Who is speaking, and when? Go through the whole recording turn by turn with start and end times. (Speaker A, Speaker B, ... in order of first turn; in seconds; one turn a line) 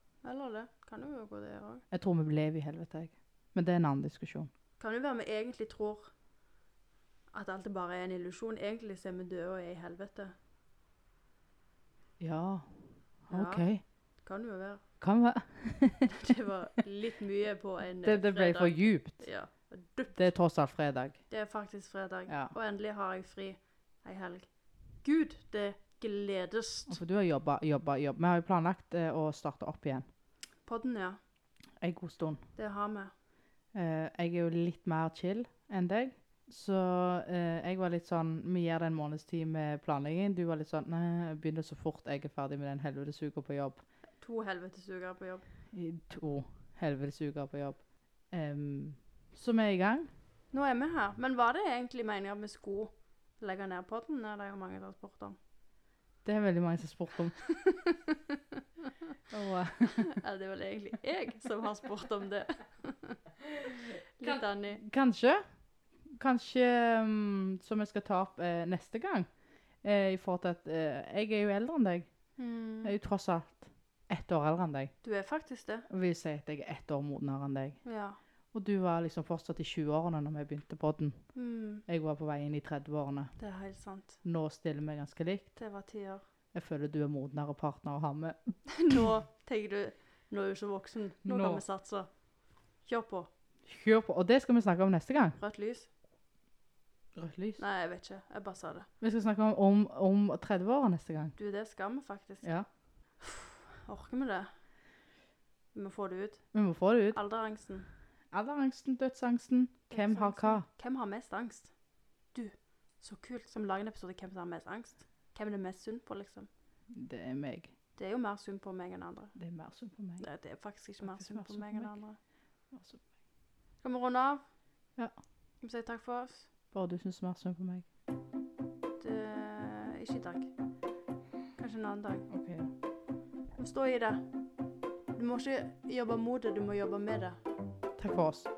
Speaker A: 0.2-1.8
Speaker B: 1.9-4.5
Speaker A: 4.8-6.1
Speaker A: 7.3-10.3
Speaker B: 12.2-13.8
Speaker A: 13.3-13.7
Speaker A: 14.2-14.8
Speaker B: 15.0-16.1
Speaker A: 16.1-20.3
Speaker B: 18.0-19.3
Speaker B: 20.1-21.2
Speaker A: 21.3-27.0
Speaker B: 22.3-22.5
Speaker B: 26.9-30.0
Speaker A: 30.6-31.2
Speaker B: 31.8-32.4
Speaker A: 32.5-33.1
Speaker B: 33.7-43.8
Speaker A: 44.2-45.4
Speaker B: 45.7-50.1
Speaker A: 50.5-55.4
Speaker B: 56.2-57.4
Speaker A: 57.5-58.9
Speaker B: 59.3-60.1
Speaker A: 59.9-64.8
Speaker B: 64.2-65.4
Speaker B: 66.1-69.3
Speaker B: 69.8-72.1
Speaker A: 72.4-72.9
Speaker B: 72.8-74.9
Speaker A: 75.0-75.8
Speaker B: 75.9-77.8
Speaker A: 77.8-78.2
Speaker B: 78.5-81.3
Speaker A: 81.3-81.8
Speaker B: 81.8-83.3
Speaker A: 83.4-84.2
Speaker B: 84.2-85.5
Speaker A: 85.6-86.2
Speaker B: 86.5-89.1
Speaker A: 88.7-92.1
Speaker B: 91.2-91.6
Speaker A: 92.8-93.3
Speaker B: 93.7-95.4
Speaker A: 95.4-95.9
Speaker B: 97.1-97.6
Speaker A: 97.6-98.9
Speaker B: 99.0-101.3
Speaker A: 101.4-102.5
Speaker A: 103.2-104.5
Speaker A: 105.7-106.5
Speaker B: 106.5-107.2
Speaker A: 107.1-107.9
Speaker B: 108.3-110.7
Speaker A: 109.9-111.7
Speaker A: 112.3-116.5
Speaker B: 116.9-117.7
Speaker A: 118.0-119.3
Speaker B: 119.3-120.2
Speaker A: 120.2-122.2
Speaker B: 121.0-121.9
Speaker B: 122.7-123.0
Speaker A: 123.8-124.4
Speaker A: 125.6-126.5
Speaker B: 126.7-127.9
Speaker A: 129.0-130.5
Speaker A: 131.6-132.3
Speaker B: 132.3-132.7
Speaker A: 133.6-134.2
Speaker A: 135.1-137.4
Speaker B: 138.0-138.5